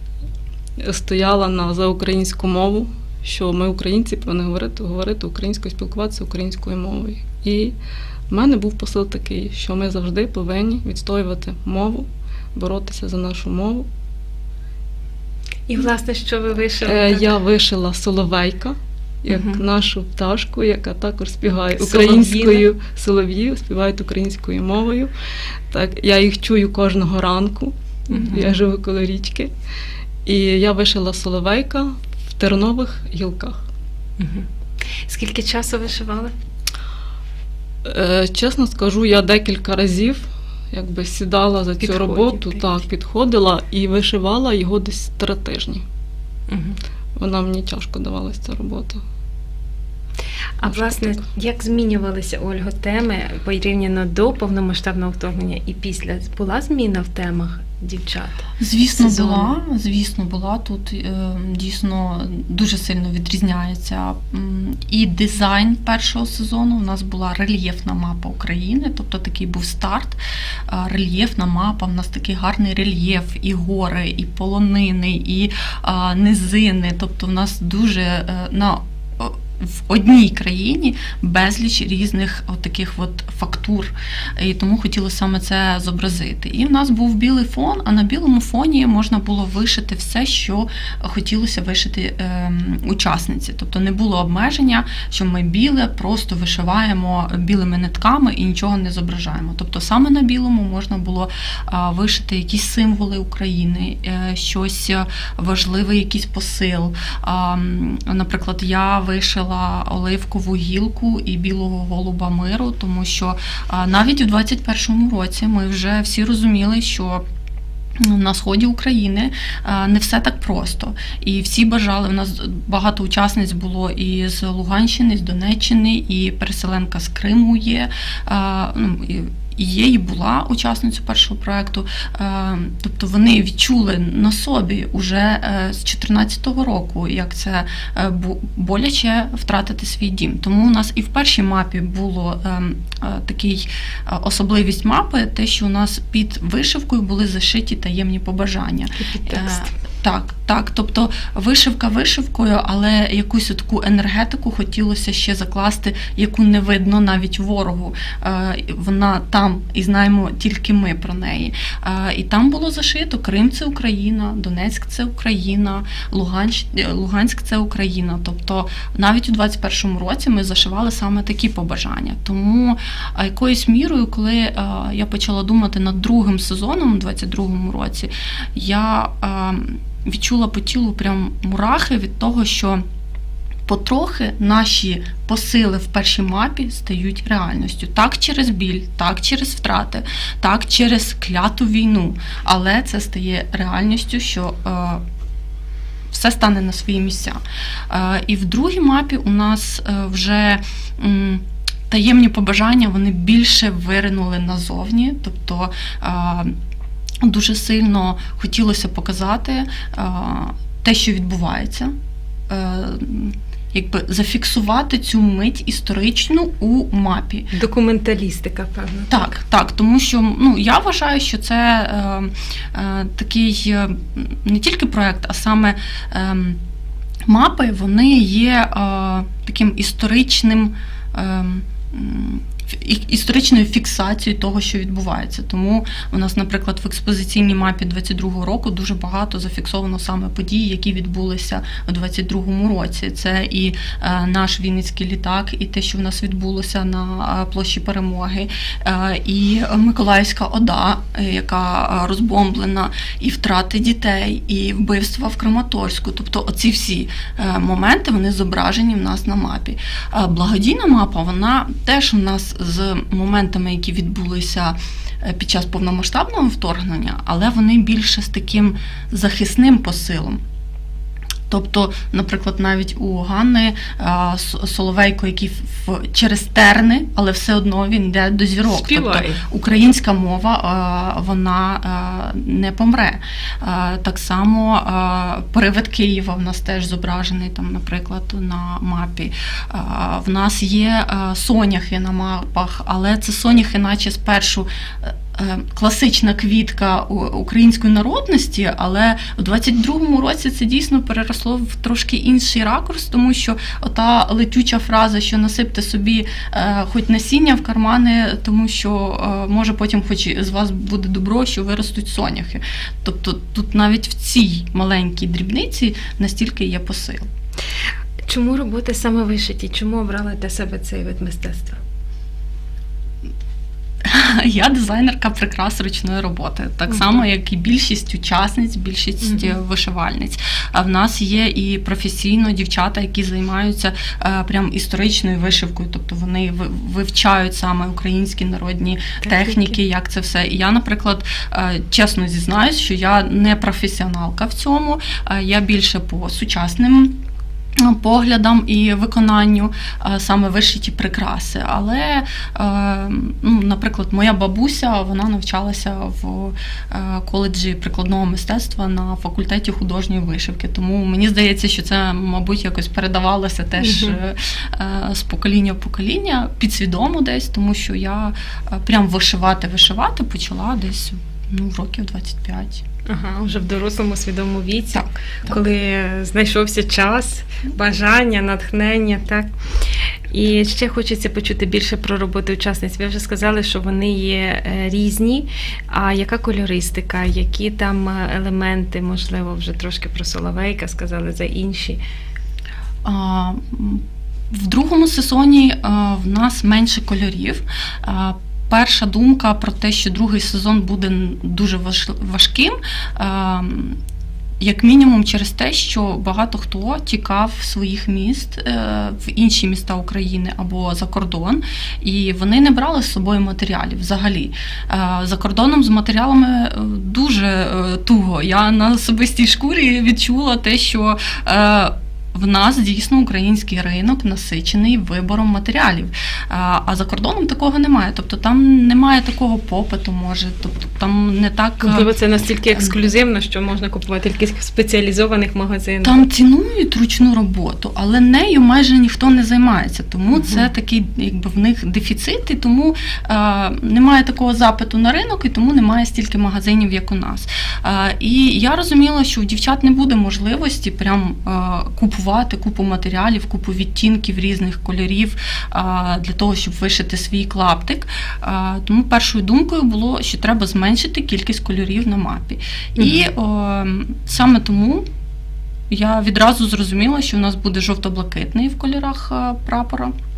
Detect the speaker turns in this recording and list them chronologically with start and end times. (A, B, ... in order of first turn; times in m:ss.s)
0:00.8-0:07.7 A
0:08.3-0:13.9 A
0:15.7-0:17.3 B
0:16.8-0:25.1 A
0:19.3-0:19.6 C
0:21.8-0:22.7 B
0:25.7-0:29.5 A
0:28.1-0:28.5 B
0:30.3-0:33.6 A
0:34.2-0:34.5 B
0:35.0-0:36.3 B
0:37.8-0:45.8 A
0:41.8-0:42.7 B
0:46.5-0:46.8 B
0:47.2-0:49.0 A
0:50.6-0:59.6 B
0:50.7-0:51.2 A
0:58.6-1:57.2 C
1:58.0-3:02.8 C
2:29.0-2:29.7 B
3:03.7-3:15.0 C
3:16.1-3:26.5 C
3:27.2-3:31.9 C
3:32.5-3:37.5 C
3:37.5-3:39.3 B
3:39.1-3:46.6 C
3:47.3-4:30.4 C
4:31.5-5:17.3 C
4:38.7-4:39.4 B
5:18.3-5:21.8 B
5:24.0-5:47.2 C
5:26.9-5:27.2 B
5:29.2-5:29.5 B
5:39.2-5:39.8 B
5:47.8-6:12.8 C
6:03.8-6:04.2 B
6:13.1-6:19.5 B
6:14.9-6:15.6 C
6:20.3-6:32.0 B
6:33.0-6:44.0 C
6:44.6-7:12.1 C
7:11.8-7:16.2 B
7:16.0-7:45.1 C
7:20.4-7:20.7 B
7:43.0-7:43.2 B
7:45.9-7:50.1 C